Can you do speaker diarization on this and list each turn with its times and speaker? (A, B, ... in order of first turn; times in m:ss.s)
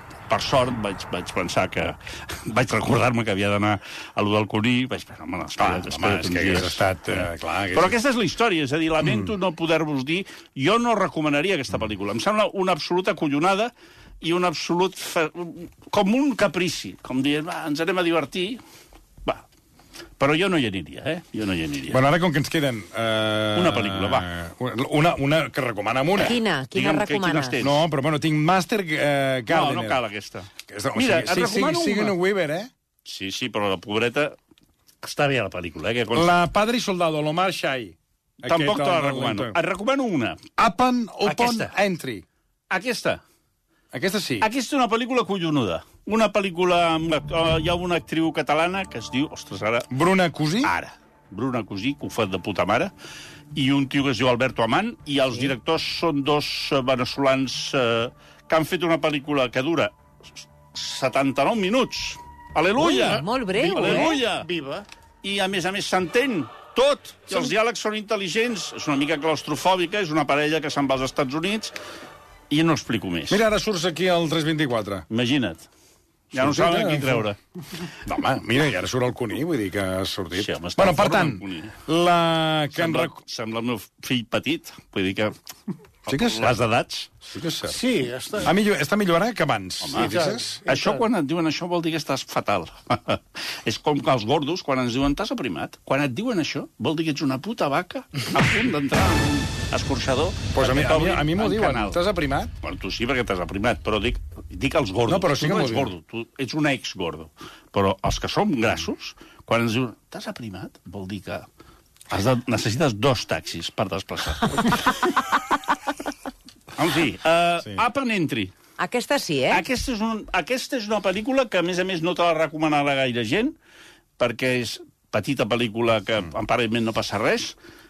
0:00.3-0:18.6 A
0:05.6-0:08.0 B
0:09.0-0:09.3 B
0:20.2-0:22.0 A
0:21.9-0:26.4 B
0:23.5-0:24.3 A
0:26.2-0:27.6 C
0:26.7-0:27.8 A
0:27.6-0:30.0 B
0:29.5-0:32.2 A
0:30.7-0:32.7 B
0:33.0-0:34.4 A
0:35.0-0:36.3 A
0:36.2-0:39.6 B
0:38.5-0:40.4 A
0:40.6-0:42.2 B
0:41.2-0:41.7 A
0:42.7-0:43.2 A
0:43.9-0:44.5 B
0:44.4-0:49.9 A
0:49.9-0:50.7 B
0:50.6-0:52.9 A
0:53.5-1:04.5 A
1:02.8-1:04.2 C
1:03.0-1:04.9 D
1:05.2-1:11.8 A
1:12.5-1:13.4 A
1:13.3-1:15.1 B
1:15.1-1:15.7 A
1:16.3-1:17.4 A
1:16.4-1:17.2 B
1:18.0-1:23.1 B
1:20.4-1:21.8 A
1:22.7-1:25.4 A
1:26.1-1:27.1 A
1:26.1-1:26.6 B
1:27.2-1:27.8 B
1:27.6-1:28.5 D
1:28.4-1:30.6 B
1:29.8-1:42.0 A
1:30.0-1:31.0 D
1:40.5-1:42.5 B
1:42.6-1:51.5 A
1:45.1-1:45.9 B
1:52.1-1:55.0 A
1:56.8-1:58.5 A
1:58.8-1:59.6 C
1:59.5-2:03.5 A
2:04.2-2:07.6 A